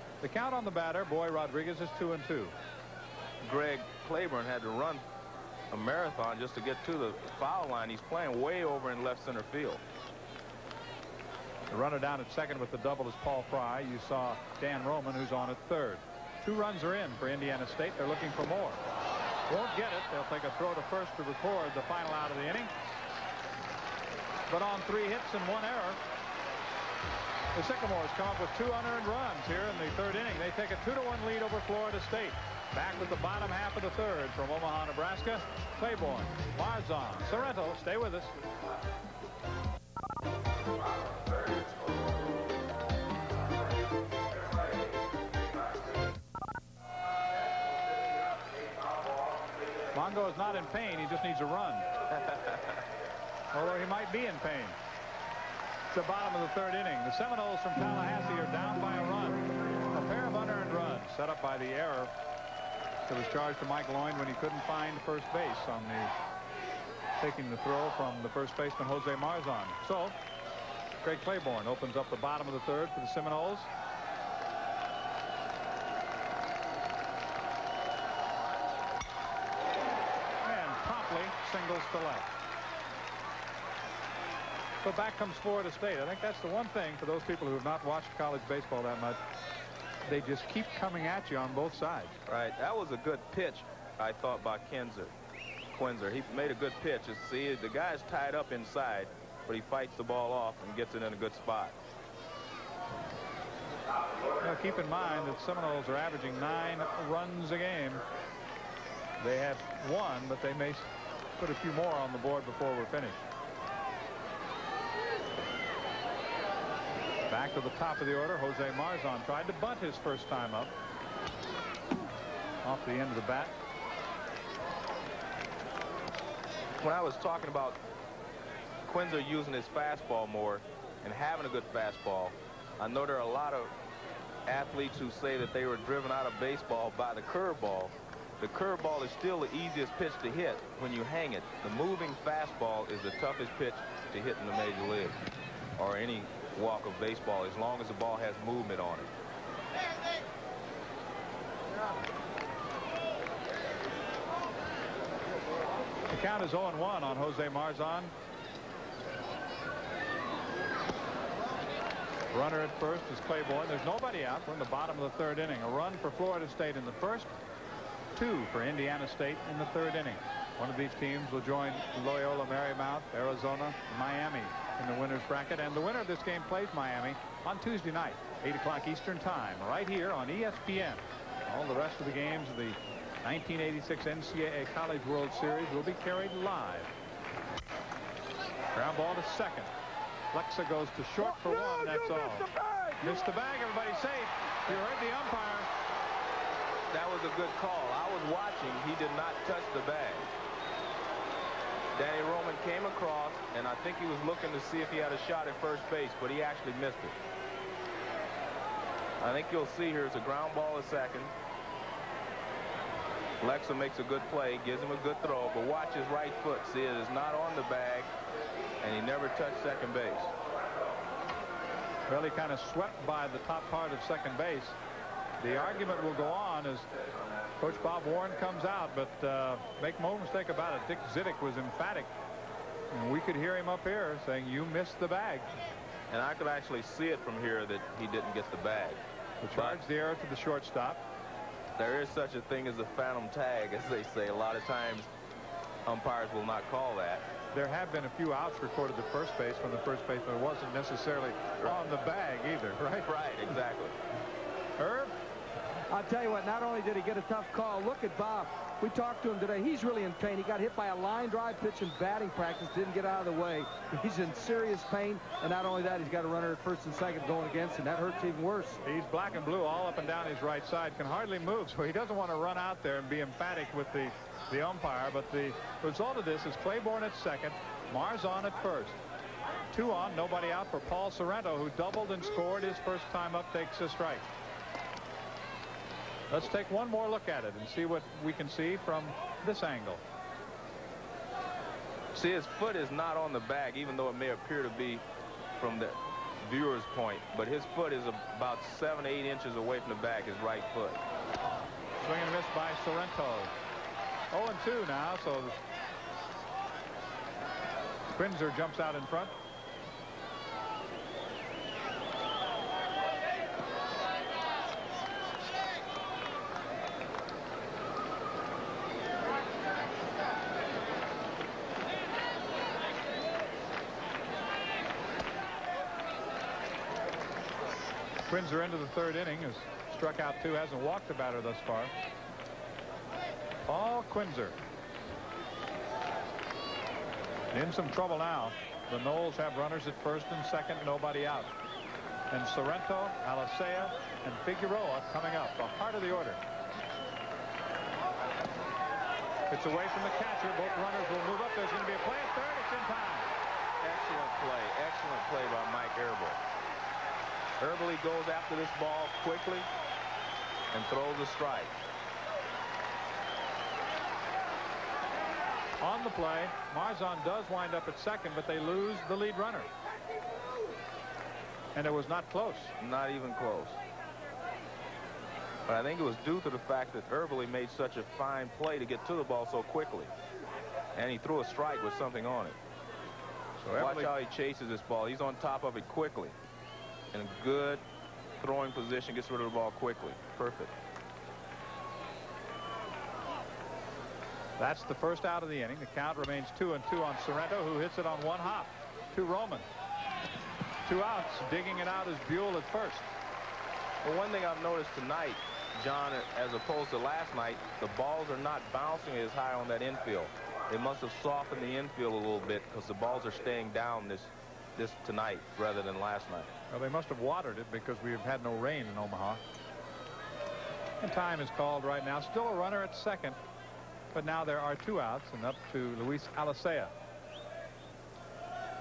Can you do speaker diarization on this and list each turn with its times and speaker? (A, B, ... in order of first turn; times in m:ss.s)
0:00.2-0:02.5 A
0:03.4-0:05.0 B
0:05.7-0:09.8 B
0:11.7-0:18.8 A
0:19.5-0:22.7 A
0:24.5-0:26.0 A
0:27.5-0:38.3 A
0:49.9-0:51.9 A
0:53.5-0:54.8 A
0:55.9-1:02.1 A
1:03.1-1:06.1 A
1:07.2-1:10.1 A
1:11.0-1:13.7 A
1:20.4-1:22.3 A
1:24.8-1:29.2 A
1:30.0-1:32.1 A
1:32.3-1:35.1 B
1:35.7-1:41.8 B
1:44.4-1:48.0 A
1:49.2-1:53.2 A
1:57.3-2:00.7 A
2:02.6-2:03.5 A
2:06.8-2:07.8 B
2:08.8-2:13.7 B
2:14.5-2:25.2 B
2:25.8-2:29.1 B
2:36.1-2:38.1 A
2:42.3-2:47.3 A
2:48.1-3:06.9 A
3:08.7-3:09.7 A
3:10.3-3:12.5 A
3:13.0-3:15.7 A
3:16.9-3:20.3 B
3:21.9-3:27.2 B
3:29.2-3:31.3 B
3:33.4-3:38.1 B
3:38.8-3:40.3 B
3:42.1-3:44.8 A
3:45.4-3:46.9 A
3:47.6-3:52.1 A
3:52.9-3:55.5 A
3:56.1-3:59.0 B
3:59.4-4:01.0 A
3:59.5-3:59.8 B
4:01.8-4:05.1 B
4:05.8-4:07.2 B
4:07.5-4:13.1 A
4:13.0-4:14.0 B
4:14.8-4:15.1 A
4:15.9-4:28.8 C
4:28.8-4:39.0 A
4:39.7-4:44.2 A
4:46.3-4:50.0 A
4:52.1-4:55.0 B
4:55.6-5:01.0 B
5:02.0-5:03.5 A
5:04.3-5:05.6 A
5:08.1-5:09.3 A
5:28.2-5:31.9 A
5:33.7-5:34.6 A
5:37.5-5:41.5 A
5:42.3-5:46.4 A
5:49.5-5:53.3 A
5:53.8-5:56.4 B
5:57.6-5:59.7 B
6:00.7-6:01.8 B
6:05.8-6:09.7 A
6:11.7-6:12.7 A
6:12.8-6:13.8 B
6:15.7-6:20.1 B
6:20.9-6:22.6 B
6:23.6-6:24.1 A
6:23.8-6:26.3 B
6:27.1-6:27.8 B
6:28.4-6:30.7 B
6:34.6-6:39.6 A
6:40.8-6:43.1 A
6:44.0-6:56.5 B
6:56.7-6:59.4 A
7:01.0-7:03.4 A
7:04.1-7:06.9 A